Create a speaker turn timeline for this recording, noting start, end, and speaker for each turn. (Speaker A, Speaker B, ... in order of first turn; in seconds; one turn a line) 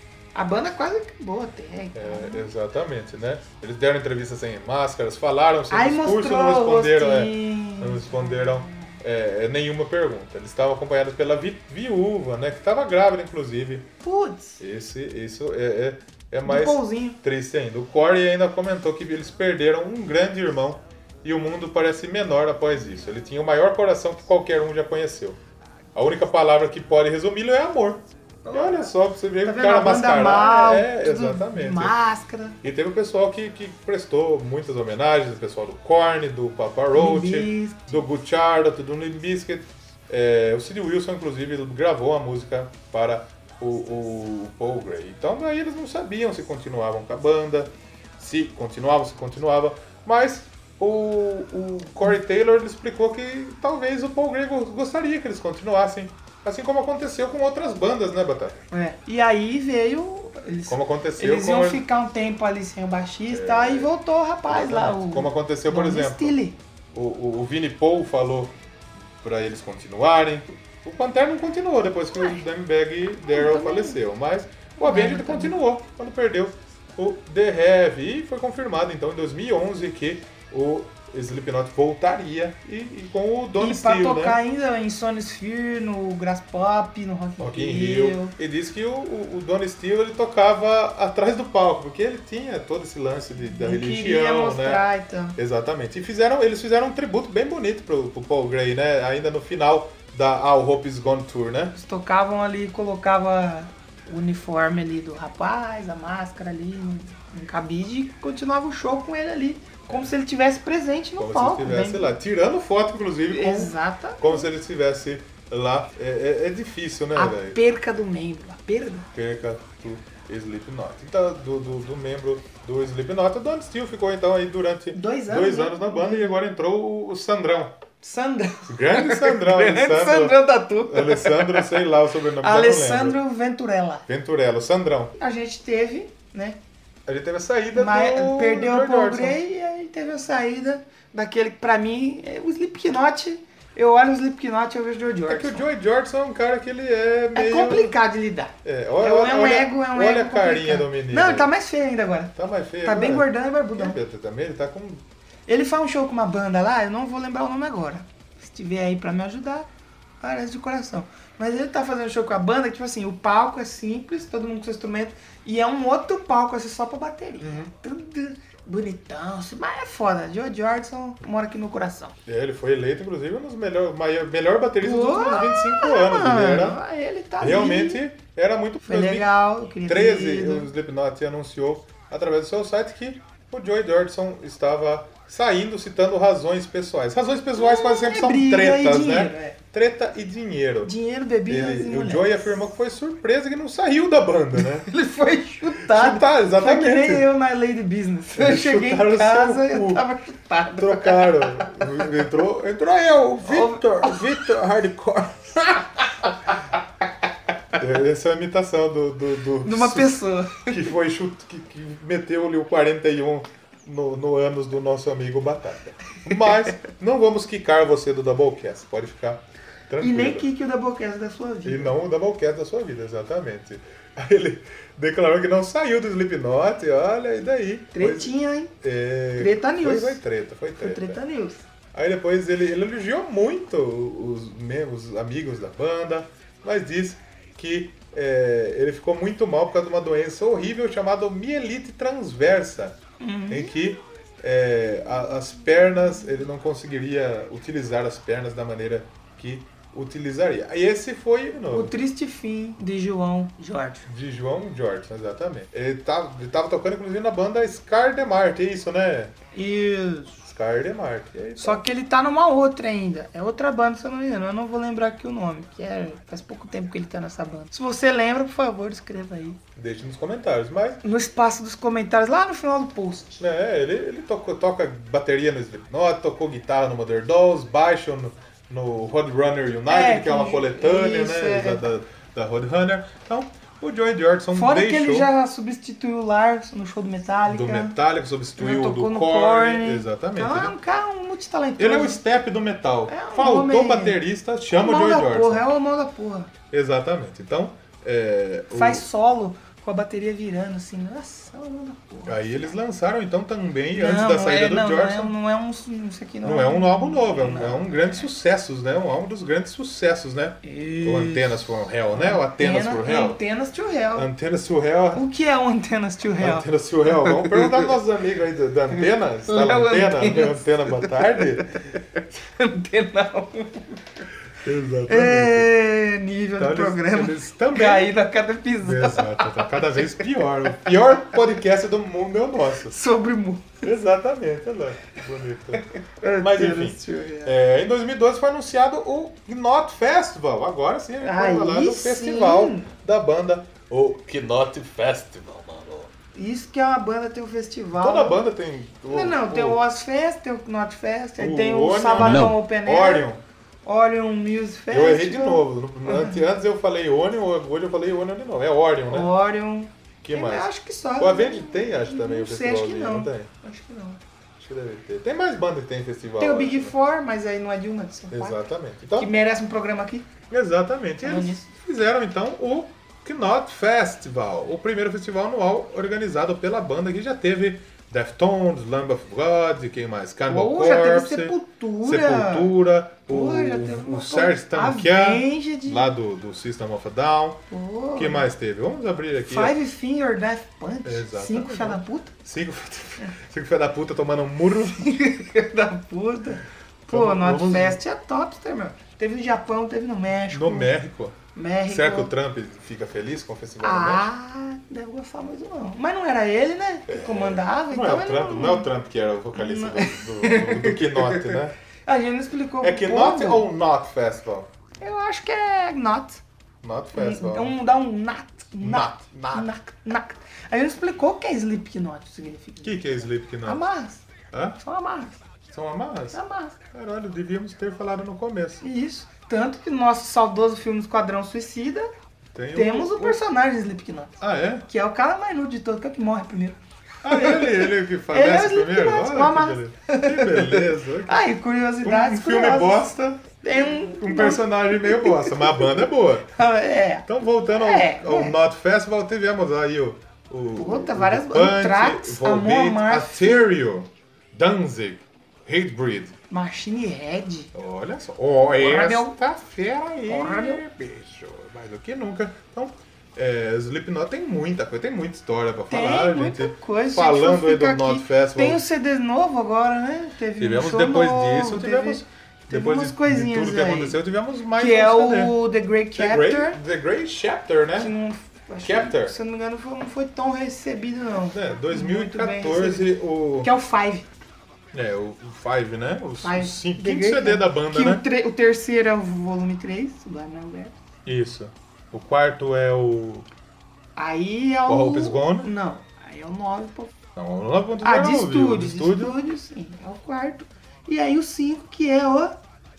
Speaker A: 0.3-2.5
Speaker B: 1.9-13.9
Speaker A: 5.7-8.9
Speaker A: 14.0-14.6
Speaker B: 14.6-25.4
Speaker A: 16.4-17.2
Speaker B: 25.9-32.0
Speaker A: 28.4-28.9
Speaker A: 29.4-32.6
Speaker B: 32.6-58.6
Speaker A: 36.9-38.0
Speaker A: 58.7-66.6
Speaker B: 60.7-61.8
Speaker B: 63.3-63.9
Speaker B: 64.5-66.4
Speaker B: 66.9-68.5
Speaker B: 69.2-84.4
Speaker A: 72.1-72.4
Speaker A: 73.2-74.0
Speaker A: 74.8-75.6
Speaker A: 83.6-88.3
Speaker B: 87.4-101.7
Speaker A: 93.5-95.4
Speaker A: 101.7-112.2
Speaker B: 111.2-117.6
Speaker A: 113.3-114.5
Speaker A: 117.1-119.1
Speaker B: 119.1-127.8
Speaker A: 124.9-126.4
Speaker A: 128.0-131.8
Speaker B: 128.7-133.2
Speaker A: 132.4-134.1
Speaker B: 134.1-135.1
Speaker A: 135.2-136.6
Speaker B: 137.1-139.4
Speaker A: 137.7-145.7
Speaker B: 145.3-147.9
Speaker A: 147.3-154.0
Speaker B: 148.6-151.5
Speaker B: 152.3-155.0
Speaker A: 155.5-159.7
Speaker A: 160.2-172.1
Speaker B: 167.4-167.7
Speaker B: 172.2-176.8
Speaker A: 174.8-178.0
Speaker B: 177.4-190.9
Speaker A: 178.8-180.7
Speaker A: 187.5-189.6
Speaker A: 190.8-192.5
Speaker B: 191.4-194.9
Speaker A: 194.6-201.7
Speaker B: 195.8-197.3
Speaker B: 198.3-200.0
Speaker B: 200.7-205.9
Speaker A: 203.4-204.5
Speaker B: 207.8-220.5
Speaker A: 209.6-210.9
Speaker A: 220.0-221.9
Speaker B: 221.6-231.2
Speaker A: 227.9-228.7
Speaker A: 229.4-230.2
Speaker A: 230.8-231.6
Speaker B: 231.9-243.0
Speaker A: 243.2-243.7
Speaker B: 243.5-251.9
Speaker A: 251.7-254.1
Speaker B: 254.1-259.3
Speaker A: 259.5-260.4
Speaker B: 260.4-261.8
Speaker A: 261.6-269.6
Speaker B: 269.8-271.0
Speaker A: 271.0-273.4
Speaker B: 273.4-285.3
Speaker A: 279.9-281.8
Speaker A: 284.5-287.9
Speaker B: 287.4-290.7
Speaker A: 288.6-292.2
Speaker B: 291.8-295.7
Speaker A: 293.1-294.2
Speaker A: 294.7-296.5
Speaker B: 296.7-299.0
Speaker A: 298.7-302.7
Speaker B: 302.2-305.3
Speaker A: 303.9-308.3
Speaker B: 306.4-313.4
Speaker A: 310.6-314.3
Speaker B: 314.1-315.2
Speaker A: 315.1-316.6
Speaker B: 316.4-321.8
Speaker A: 317.2-317.8
Speaker A: 319.4-321.4
Speaker A: 322.4-324.0
Speaker B: 324.6-325.7
Speaker A: 325.1-330.1
Speaker B: 326.6-328.1
Speaker B: 328.8-333.0
Speaker A: 332.9-333.8
Speaker B: 333.8-335.8
Speaker A: 336.2-337.6
Speaker B: 336.4-346.1
Speaker A: 341.2-342.9
Speaker A: 346.3-348.4
Speaker B: 347.9-349.8
Speaker A: 349.1-353.2
Speaker B: 351.4-353.4
Speaker A: 353.8-356.4
Speaker B: 354.9-359.3
Speaker A: 359.1-364.2
Speaker B: 360.2-363.5
Speaker B: 364.6-366.9
Speaker A: 366.4-368.6
Speaker B: 368.3-369.3
Speaker A: 369.1-370.3
Speaker B: 370.5-387.6
Speaker A: 371.2-371.7
Speaker A: 380.4-382.8
Speaker A: 383.3-386.1
Speaker A: 387.7-388.5
Speaker B: 388.1-389.8
Speaker A: 389.4-392.3
Speaker B: 391.0-395.0
Speaker A: 395.0-400.9
Speaker B: 397.1-398.0
Speaker B: 400.5-404.3
Speaker A: 401.5-402.3
Speaker A: 403.8-408.9
Speaker B: 407.1-411.7
Speaker A: 409.5-413.7
Speaker B: 412.8-414.7
Speaker A: 415.0-416.4
Speaker B: 416.8-417.8
Speaker A: 417.1-423.1
Speaker B: 418.8-419.7
Speaker B: 422.8-423.9
Speaker A: 423.6-424.2
Speaker B: 424.5-424.8
Speaker A: 424.8-425.4
Speaker B: 425.7-426.4
Speaker A: 426.3-426.8
Speaker B: 426.9-428.8
Speaker A: 428.8-432.1
Speaker B: 432.5-433.4
Speaker A: 432.7-446.0
Speaker B: 434.4-434.9
Speaker B: 437.2-441.4
Speaker B: 442.0-446.5
Speaker A: 446.5-448.6
Speaker B: 447.2-456.4
Speaker A: 450.8-453.7
Speaker A: 456.5-457.7
Speaker B: 457.7-468.8
Speaker A: 458.7-459.4
Speaker A: 460.3-460.8
Speaker A: 465.9-474.2
Speaker B: 470.6-475.6
Speaker A: 474.8-476.8
Speaker B: 476.1-478.1
Speaker A: 478.0-484.3
Speaker B: 478.8-479.4
Speaker B: 481.4-483.7
Speaker B: 484.9-488.2
Speaker A: 486.4-490.9
Speaker B: 491.2-493.5
Speaker A: 494.1-497.1
Speaker B: 494.9-495.7
Speaker B: 497.4-499.4
Speaker A: 498.0-502.6